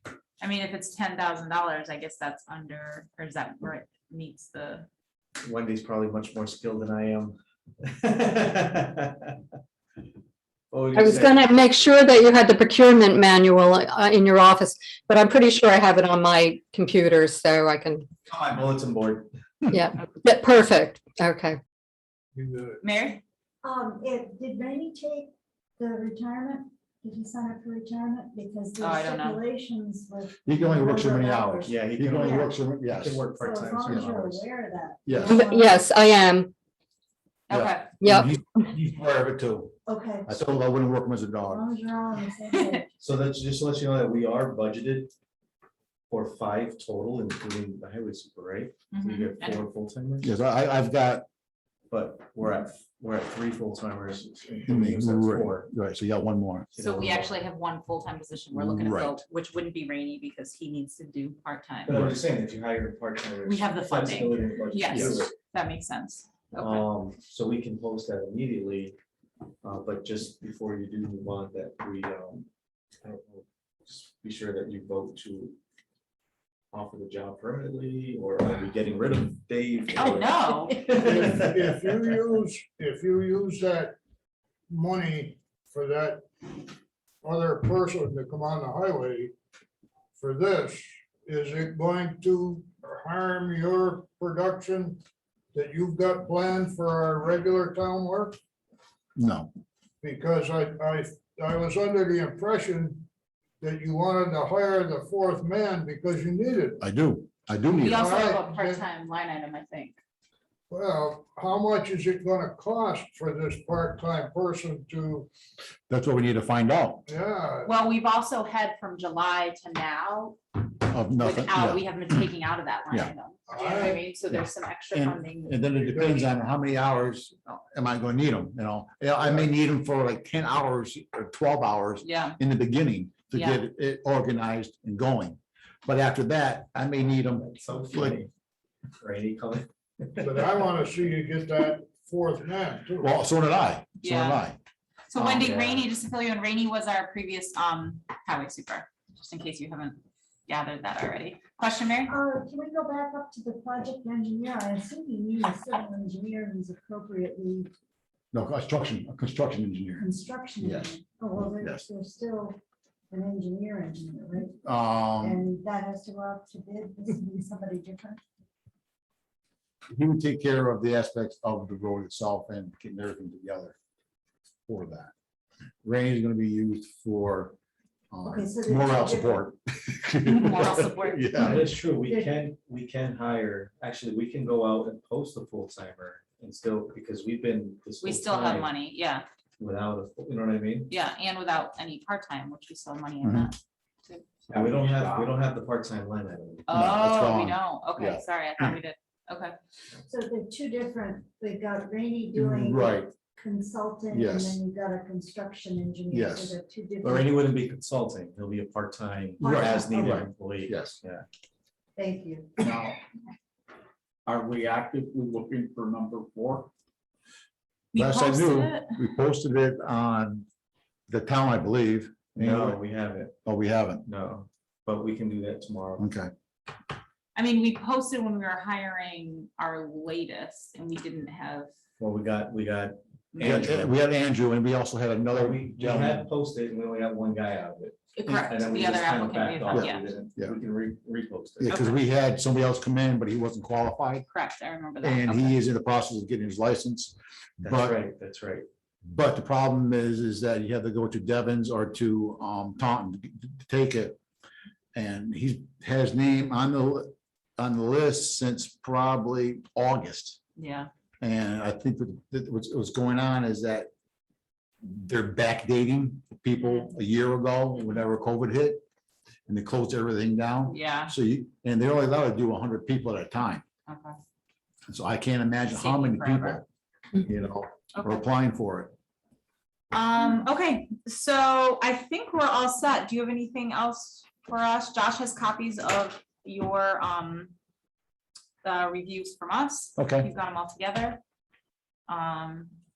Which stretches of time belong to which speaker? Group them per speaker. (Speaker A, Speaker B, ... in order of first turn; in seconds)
Speaker A: 0.4-4.9, 22.8-23.2, 28.8-29.4, 37.5-38.0, 42.5-42.8, 48.9-49.6, 56.8-62.0, 63.4-66.9, 80.0-80.8, 107.7-110.0, 117.6-120.4, 121.1-125.7, 132.0-132.4, 133.3-133.6, 144.0-144.4, 145.1-152.1, 180.2-181.6, 188.0-189.2, 190.9-194.2, 196.7-199.5, 217.9-218.9, 227.3-231.7, 233.3-233.7, 238.2-240.1, 241.7-241.9, 244.3-245.6, 260.6-260.9, 266.6-266.9, 270.7-271.1, 273.9-274.2, 275.7-276.6, 277.9-278.2, 279.9-287.5, 288.6-291.2, 292.1-292.7
Speaker B: 5.4-9.4, 10.7-11.5, 18.2-19.3, 31.6-34.5, 43.0-45.1, 46.1-50.3, 51.9-55.7, 56.7-57.3, 61.9-65.3, 66.6-69.0, 69.6-72.5, 73.0-75.6, 76.7-82.0, 137.3-138.3, 139.0-140.6, 145.4-145.9, 181.3-188.7, 189.6-190.9, 194.5-196.7, 207.0-211.2, 222.3-223.3, 224.0-226.1, 232.0-233.9, 235.3-241.8, 247.6-248.7
Speaker C: 11.0-18.0, 19.7-21.6, 35.4-36.5
Speaker D: 22.3-22.8, 81.0-84.0, 84.7-86.2, 87.2-89.3, 90.2-95.0, 95.5-98.4, 100.0-103.1, 103.6-106.8, 108.0-108.8, 110.7-115.3, 117.1-117.7, 123.5-124.0, 125.8-126.2, 129.2-129.4, 140.2-143.1
Speaker E: 23.6-32.5, 33.3-35.9, 39.9-40.6, 41.4-43.0, 152.1-157.7, 160.0-162.6, 163.1-164.6, 165.2-168.2, 178.2-179.4, 181.4-182.3, 200.1-207.3, 209.4-210.2, 211.9-212.9
Speaker F: 30.4-33.2, 35.0-35.4, 37.5-39.8, 40.3-41.7, 50.2-51.2, 54.7-56.7, 58.5-59.2, 61.9-62.2, 64.9-65.2, 99.2-99.5, 106.8-108.1, 115.9-117.0, 120.8-122.3, 124.3-138.2, 143.0-144.6, 145.2-145.6, 158.3-160.1, 160.6-161.8, 164.6-165.5, 169.9-173.8, 174.7-175.1, 175.8-177.6, 178.1-181.7, 193.2-193.5, 196.7-198.8, 202.3-203.1, 204.1-204.6, 206.1-206.6, 209.4-211.0, 212.6-213.0, 215.1-215.4, 217.9-220.4, 221.1-222.8, 223.4-224.0, 226.0-226.3, 233.4-236.3, 239.7-240.6, 241.6-244.2, 245.0-248.0, 249.0-254.2, 254.9-260.4, 261.2-263.9, 264.8-268.8, 269.5-273.6, 274.9-276.6, 277.2-278.9, 290.0-290.3
Speaker G: 194.5-195.3, 214.3-216.7